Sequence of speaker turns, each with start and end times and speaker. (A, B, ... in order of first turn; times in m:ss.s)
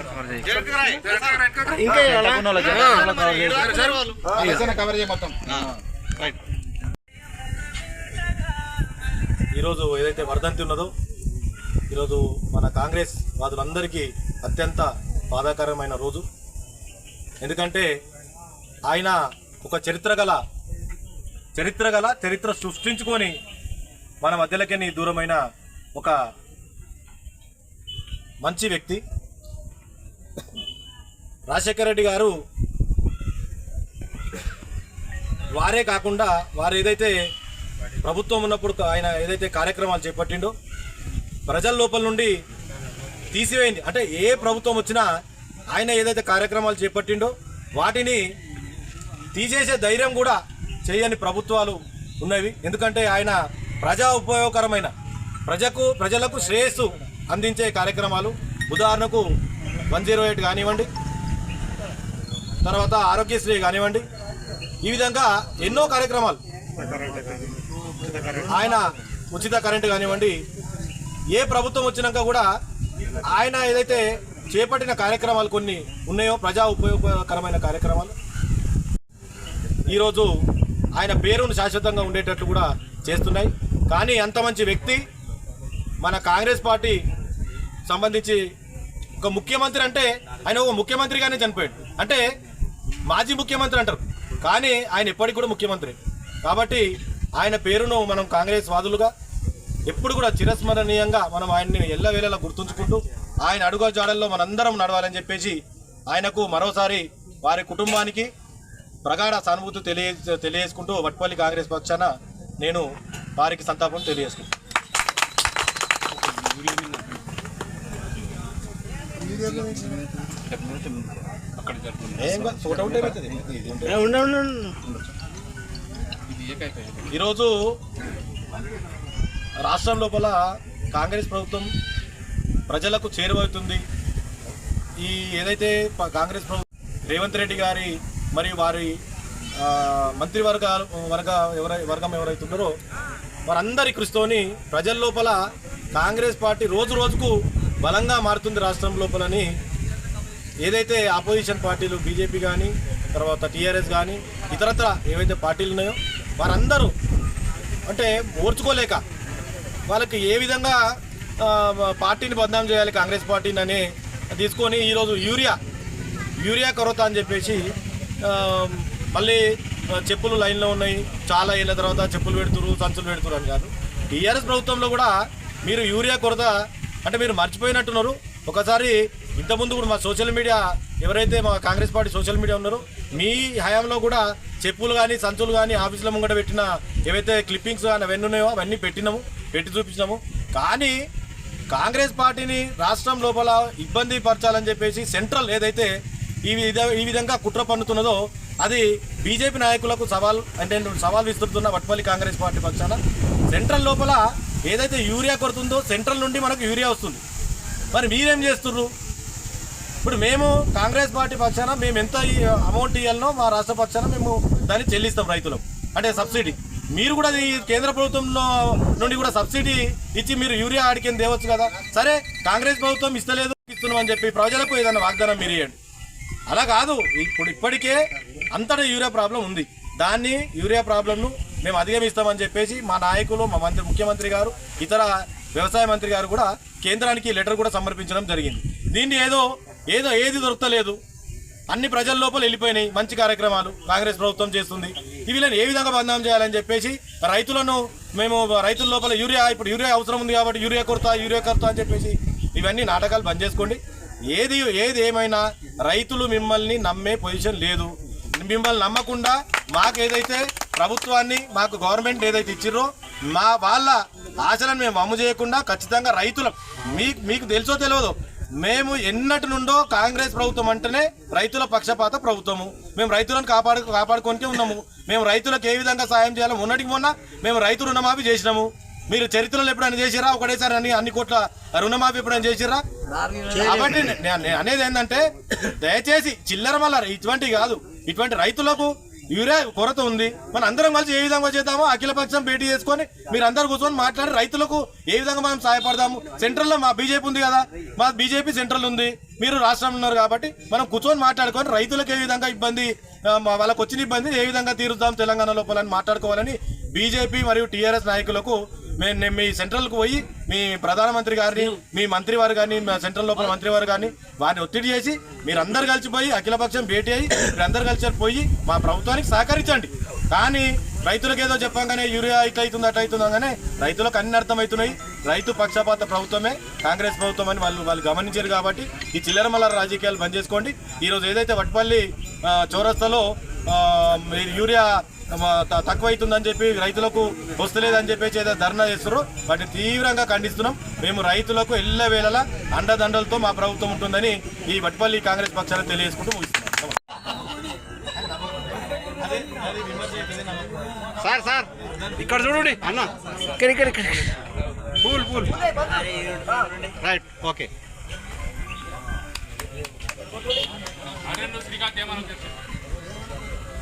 0:00.2-0:04.8 A
0:02.2-0:03.8 B
0:04.6-0:05.4 B
0:05.5-0:06.4 A
0:09.5-0:10.9 C
0:11.9-0:16.2 C
0:17.4-0:17.9 C
0:18.9-0:20.4 C
0:21.6-0:23.4 C
0:24.2-0:25.4 C
0:28.4-0:29.0 C
0:31.5-0:32.4 C
0:35.6-0:37.2 C
0:38.0-0:40.5 C
0:41.5-0:42.4 C
0:43.3-0:45.1 C
0:45.8-0:48.2 C
0:49.3-0:54.9 C
0:55.5-0:59.3 C
0:59.9-1:00.9 C
1:02.6-1:04.1 C
1:04.8-1:06.4 C
1:06.9-1:07.5 B
1:08.0-1:08.4 B
1:08.4-1:10.4 C
1:11.3-1:12.5 C
1:13.2-1:18.1 C
1:19.9-1:20.3 C
1:21.0-1:25.0 C
1:26.0-1:27.0 C
1:27.9-1:28.4 C
1:29.2-1:32.2 C
1:33.1-1:36.9 C
1:37.4-1:39.1 C
1:39.9-1:45.6 C
1:46.1-1:48.3 C
1:49.0-1:54.5 C
1:56.4-1:57.0 B
1:59.2-2:03.6 B
2:02.2-2:04.0 C
2:03.8-2:04.8 A
2:06.3-2:07.1 B
2:07.1-2:07.7 C
2:09.7-2:11.7 C
2:12.7-2:13.8 C
2:15.0-2:19.0 C
2:19.6-2:22.7 C
2:23.5-2:25.4 C
2:26.0-2:29.5 C
2:30.6-2:36.9 C
2:37.9-2:39.0 C
2:39.9-2:45.6 C
2:46.4-2:47.7 C
2:48.2-2:55.1 C
2:55.6-3:11.0 C
3:11.7-3:15.9 C
3:16.5-3:23.0 C
3:23.5-3:27.2 C
3:27.9-3:28.9 C
3:30.0-3:45.8 C
3:46.5-3:48.0 C
3:48.5-4:01.0 C
4:01.7-4:42.8 C
4:43.2-4:43.9 A
4:43.5-5:47.0 C
5:49.2-5:50.8 C
5:51.2-5:54.3 A
5:55.0-5:55.5 A
5:57.0-5:57.7 A
6:01.4-6:02.5 B